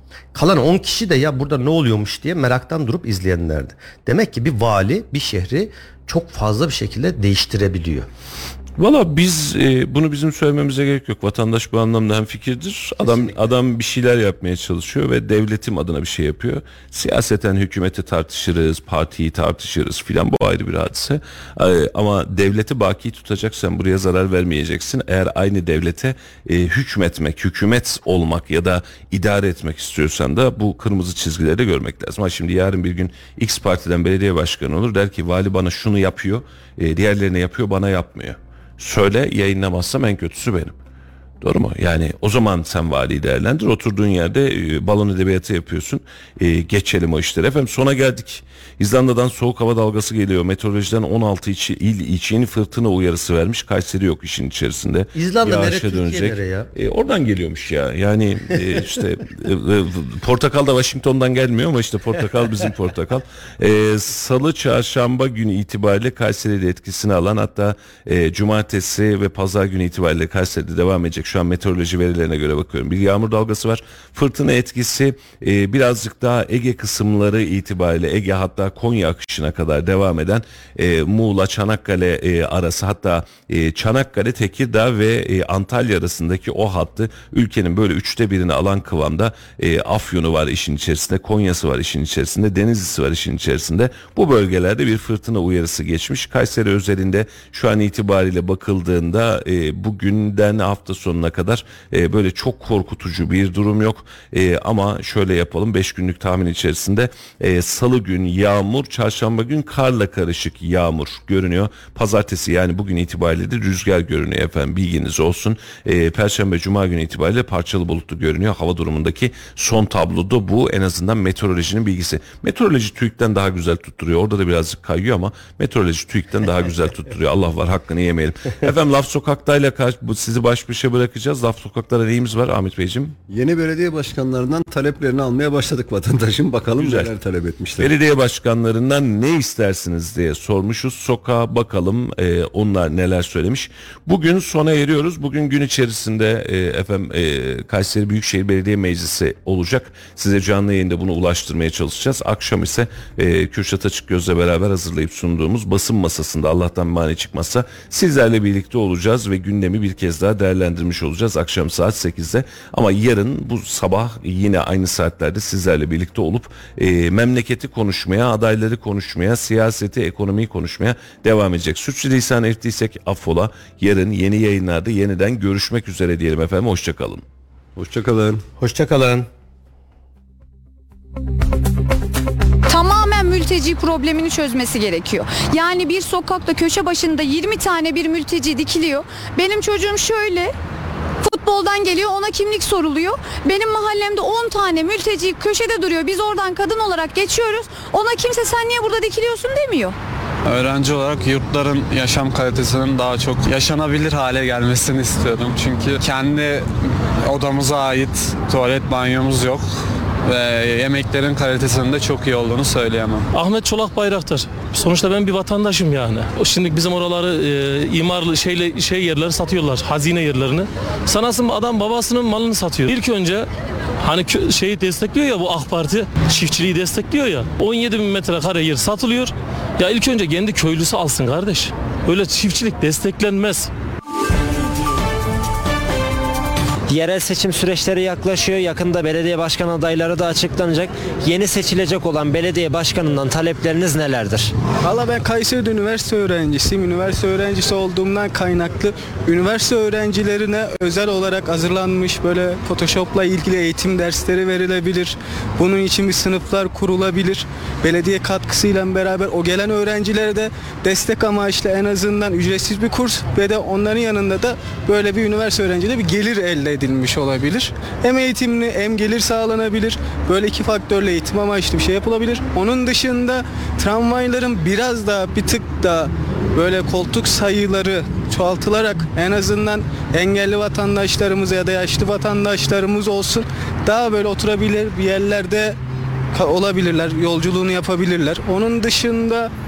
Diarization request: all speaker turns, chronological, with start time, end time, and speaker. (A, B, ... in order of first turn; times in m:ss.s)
0:00.3-0:08.1 A
0:08.8-0:40.7 B
0:13.0-0:13.3 A
0:41.4-2:13.2 B
0:55.1-0:56.7 A
2:13.3-2:17.9 C
2:16.8-2:17.1 B
2:17.8-2:57.2 B
2:57.8-2:58.4 C
2:58.6-2:59.3 A
3:02.7-3:10.5 D
3:11.2-3:19.9 D
3:20.4-3:29.6 E
3:30.2-3:33.3 E
3:33.3-3:43.5 F
3:44.0-3:53.7 F
3:56.9-4:04.5 G
4:04.8-4:45.8 H
4:46.3-4:49.5 H